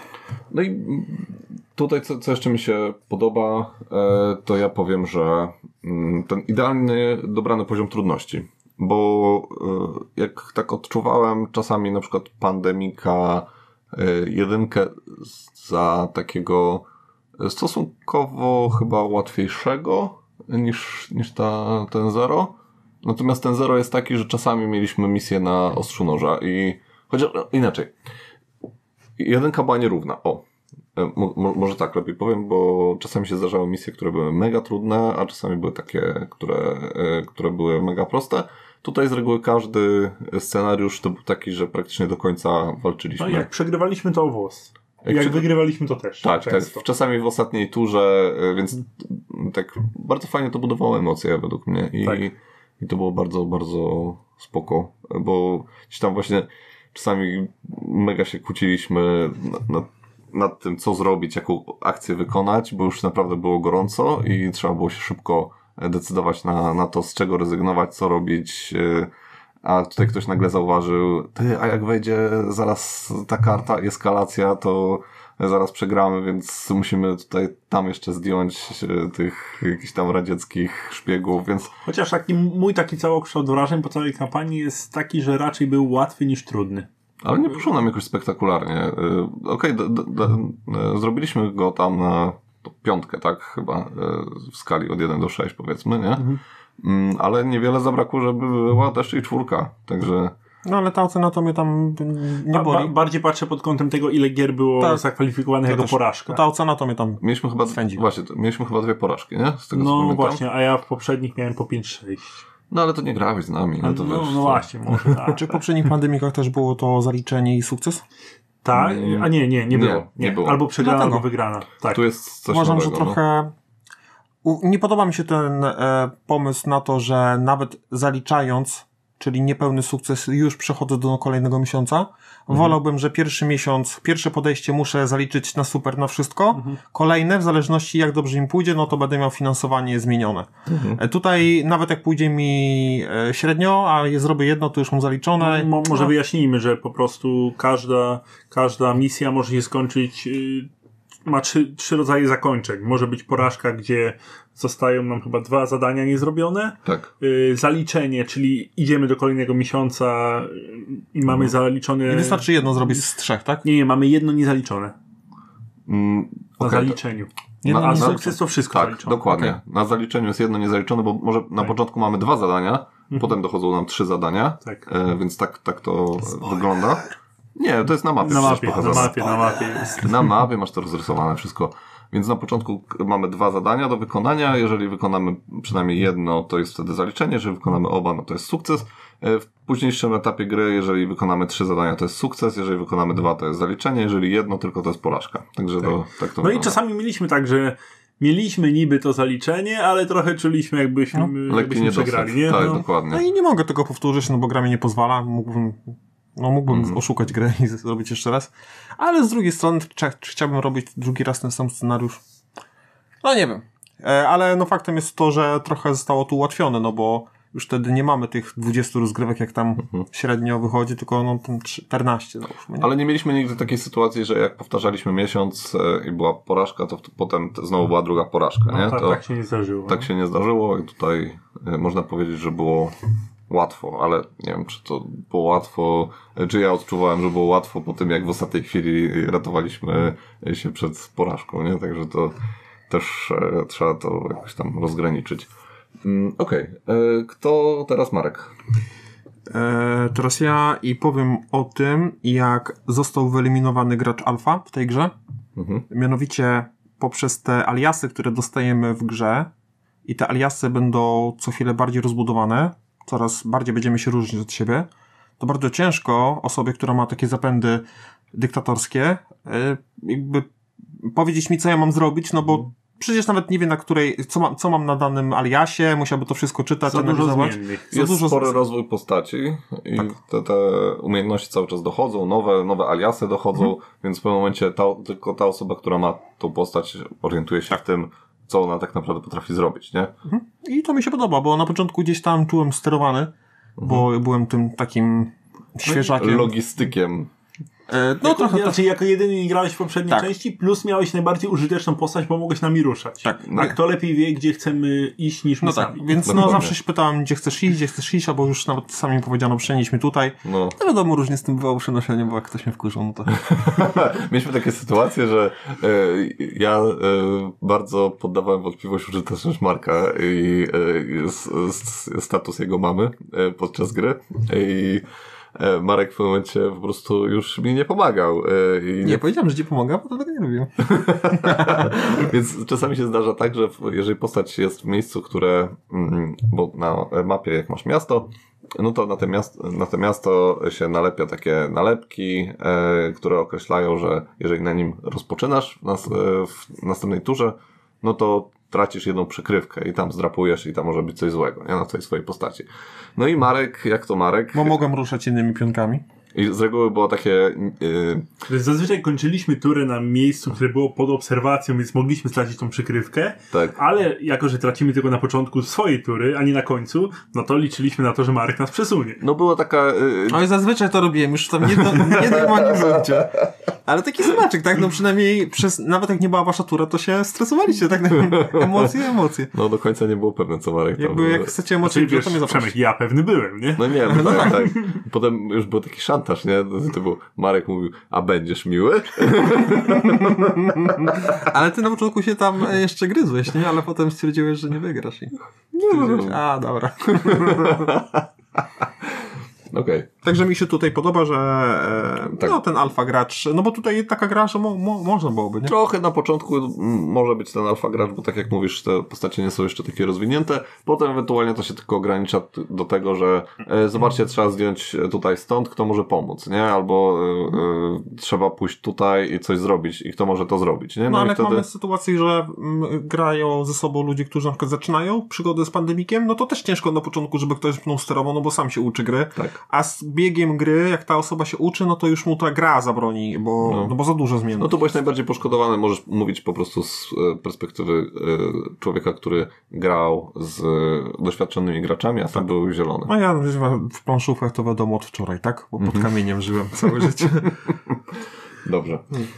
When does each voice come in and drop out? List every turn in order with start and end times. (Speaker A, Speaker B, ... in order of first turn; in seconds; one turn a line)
Speaker A: 0.5-16.9
Speaker A: 17.4-27.9
Speaker A: 29.2-30.4
Speaker A: 30.9-43.5
Speaker B: 43.2-46.8
Speaker A: 45.0-45.5
Speaker A: 46.2-69.1
Speaker A: 69.6-81.7
Speaker B: 81.8-86.9
Speaker A: 87.2-96.3
Speaker A: 96.8-100.3
Speaker C: 100.6-102.9
Speaker B: 102.5-106.4
Speaker C: 104.8-105.0
Speaker C: 105.7-108.0
Speaker A: 107.2-110.4
Speaker B: 109.7-112.4
Speaker A: 112.7-115.2
Speaker B: 113.8-115.6
Speaker C: 115.3-118.0
Speaker B: 118.6-122.0
Speaker A: 118.7-120.6
Speaker C: 120.8-121.2
Speaker A: 121.9-123.2
Speaker C: 122.5-123.5
Speaker C: 124.4-146.1
Speaker A: 140.7-141.0
Speaker B: 145.4-150.7
Speaker B: 151.2-162.5
Speaker C: 162.1-163.6
Speaker B: 163.6-164.9
Speaker A: 165.9-167.0
Speaker B: 166.6-169.3
Speaker C: 167.6-168.3
Speaker A: 167.7-196.7
Speaker C: 169.3-169.6
Speaker B: 178.2-180.1
Speaker B: 196.4-202.8
Speaker A: 201.5-203.2
Speaker C: 203.1-212.2
Speaker A: 206.7-207.0
Speaker C: 213.2-222.9
Speaker A: 222.8-229.2
Speaker B: 228.7-230.1
Speaker A: 229.9-232.9
Speaker A: 233.5-242.4
Speaker A: 242.9-245.5
Speaker A: 246.0-248.5
Speaker C: 249.5-255.1
Speaker A: 255.6-255.8
Speaker C: 255.9-259.5
Speaker C: 260.1-264.9
Speaker C: 265.4-278.6
Speaker B: 276.9-277.9
Speaker A: 277.9-290.1
Speaker C: 290.2-296.5
Speaker A: 293.8-294.1
Speaker A: 295.9-297.3
Speaker C: 297.9-298.8
Speaker B: 298.2-306.2
Speaker C: 303.2-303.8
Speaker C: 305.6-313.9
Speaker A: 306.2-306.7
Speaker A: 310.4-310.7
Speaker A: 313.4-329.2
Speaker C: 329.0-332.0
Speaker A: 330.8-354.8
Speaker C: 354.5-356.0
Speaker A: 356.3-358.2
Speaker B: 358.5-369.2
Speaker A: 363.5-363.8
Speaker A: 369.2-370.4
Speaker C: 370.3-379.5
Speaker A: 371.8-373.2
Speaker A: 378.3-378.9
Speaker A: 379.5-381.5
Speaker C: 381.0-382.7
Speaker B: 381.8-384.8
Speaker A: 383.8-391.4
Speaker C: 384.1-384.6
Speaker C: 389.7-398.0
Speaker A: 395.9-396.4
Speaker A: 397.1-400.1
Speaker C: 400.2-405.7
Speaker A: 405.6-421.6
Speaker C: 421.1-434.8
Speaker A: 433.6-433.9
Speaker A: 434.6-443.1
Speaker C: 443.1-447.5
Speaker A: 445.8-446.1
Speaker A: 446.8-447.9
Speaker A: 448.6-449.1